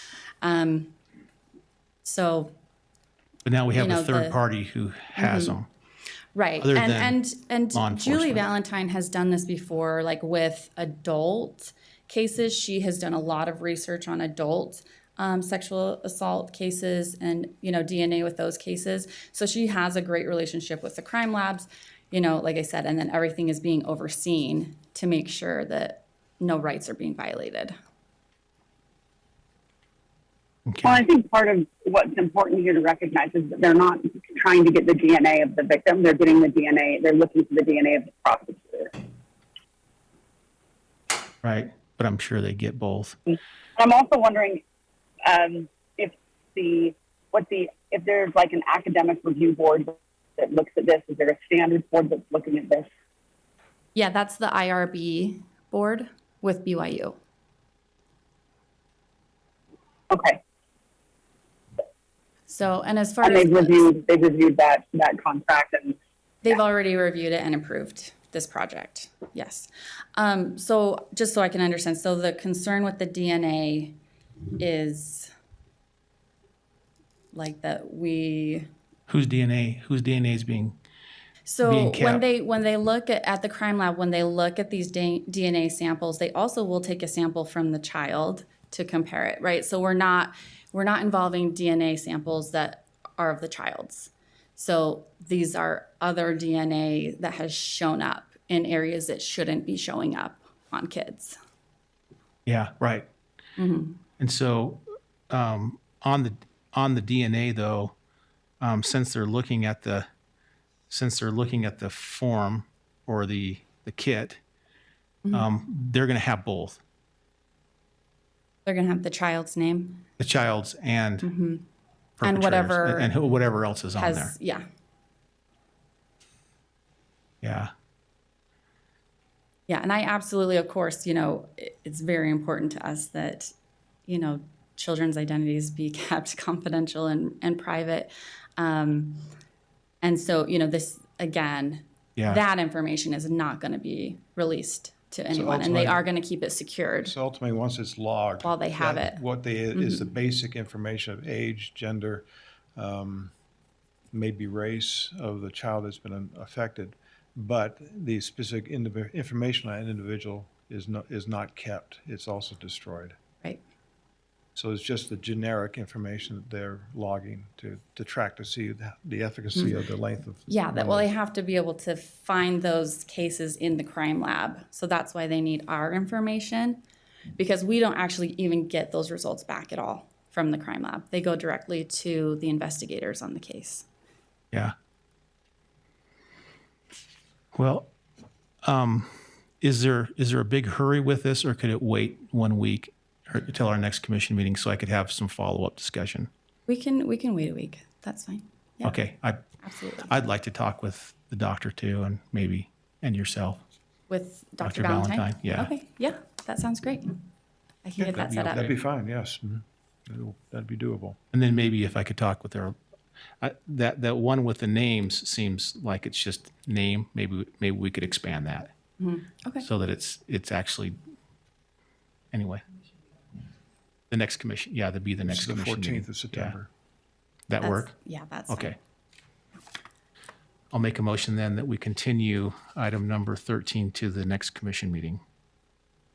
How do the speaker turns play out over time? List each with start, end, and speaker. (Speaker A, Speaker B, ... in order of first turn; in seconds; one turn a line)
Speaker A: 0.4-0.9
Speaker A: 2.0-2.5
Speaker B: 3.4-5.7
Speaker A: 3.7-4.4
Speaker A: 5.2-5.6
Speaker A: 6.3-27.7
Speaker B: 6.6-7.2
Speaker B: 7.7-8.4
Speaker B: 30.7-31.0
Speaker C: 30.8-38.9
Speaker B: 41.4-43.2
Speaker C: 43.8-44.6
Speaker C: 45.2-52.9
Speaker A: 53.9-57.2
Speaker C: 60.1-60.4
Speaker A: 62.5-63.8
Speaker C: 63.2-66.0
Speaker A: 66.4-74.0
Speaker A: 74.6-75.3
Speaker A: 77.3-78.7
Speaker B: 79.1-80.8
Speaker A: 81.5-101.4
Speaker B: 81.6-82.2
Speaker B: 102.5-103.0
Speaker A: 103.6-104.0
Speaker B: 104.2-107.9
Speaker B: 108.6-110.1
Speaker B: 110.9-114.4
Speaker A: 115.2-115.5
Speaker B: 115.3-116.8
Speaker A: 118.7-120.0
Speaker B: 120.2-121.3
Speaker A: 121.2-121.6
Speaker B: 122.2-124.3
Speaker A: 122.2-123.1
Speaker A: 124.0-124.7
Speaker B: 127.4-127.7
Speaker A: 129.7-133.5
Speaker A: 134.1-139.2
Speaker A: 140.0-147.1
Speaker B: 142.2-142.4
Speaker D: 145.3-146.1
Speaker D: 147.0-153.3
Speaker A: 148.4-149.2
Speaker A: 149.7-150.1
Speaker D: 154.1-163.2
Speaker D: 164.6-171.1
Speaker A: 170.5-176.8
Speaker A: 177.3-183.8
Speaker B: 187.5-187.9
Speaker B: 188.6-196.3
Speaker A: 196.7-199.0
Speaker B: 198.8-199.4
Speaker A: 199.6-200.1
Speaker B: 200.1-203.6
Speaker A: 204.1-207.2
Speaker B: 204.6-205.7
Speaker A: 207.8-208.7
Speaker B: 208.0-208.7
Speaker D: 208.0-211.2
Speaker B: 211.3-212.7
Speaker B: 213.4-218.7
Speaker A: 219.0-219.7
Speaker B: 219.6-221.0
Speaker B: 222.3-222.6
Speaker B: 224.1-226.5
Speaker D: 225.2-226.7
Speaker B: 227.5-227.9
Speaker A: 227.6-228.7
Speaker B: 228.5-228.8
Speaker B: 230.7-235.2